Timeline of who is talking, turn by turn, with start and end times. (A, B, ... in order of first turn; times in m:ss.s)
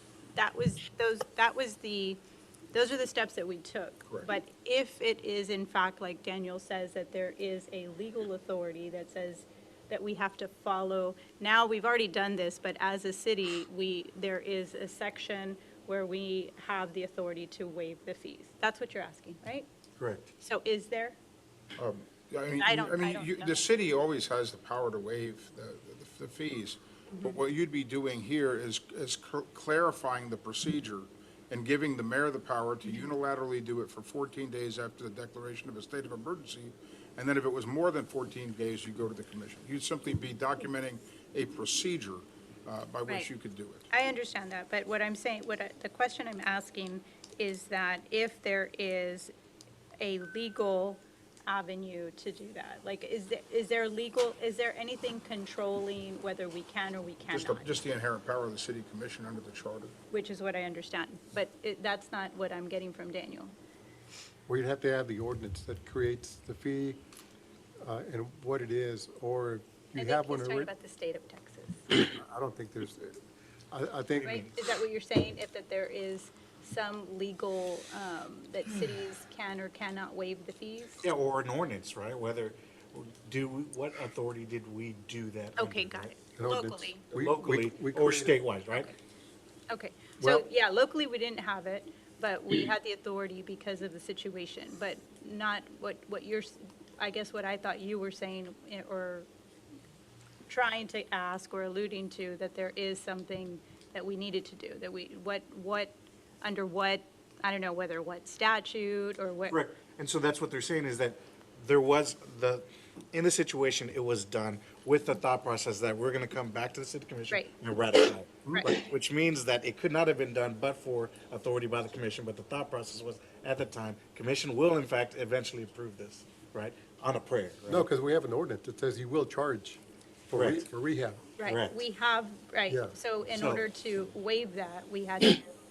0:00.4-0:02.2 A
0:02.7-0:19.7 A
0:20.0-0:20.3 B
0:20.4-0:21.2 A
0:21.8-0:43.9 C
0:22.6-0:23.6 A
0:43.9-0:49.3 A
0:50.0-0:57.8 A
0:57.3-0:59.9 C
1:00.1-1:03.5 A
1:04.5-1:07.0 D
1:07.8-1:10.7 D
1:10.0-1:11.9 A
1:11.9-1:13.2 D
1:13.7-1:14.4 D
1:14.2-1:21.1 A
1:14.2-1:14.5 B
1:21.0-1:26.3 B
1:25.6-1:27.0 A
1:26.4-1:28.4 D
1:27.1-1:28.9 B
1:29.7-1:39.3 A
1:40.5-1:49.6 A
1:49.5-2:07.9 B
1:58.5-1:58.8 A
2:07.7-2:11.2 D
2:10.3-2:10.7 B
2:11.4-2:15.4 A
2:11.4-2:11.8 B
2:12.7-2:12.9 D
2:13.3-2:13.6 B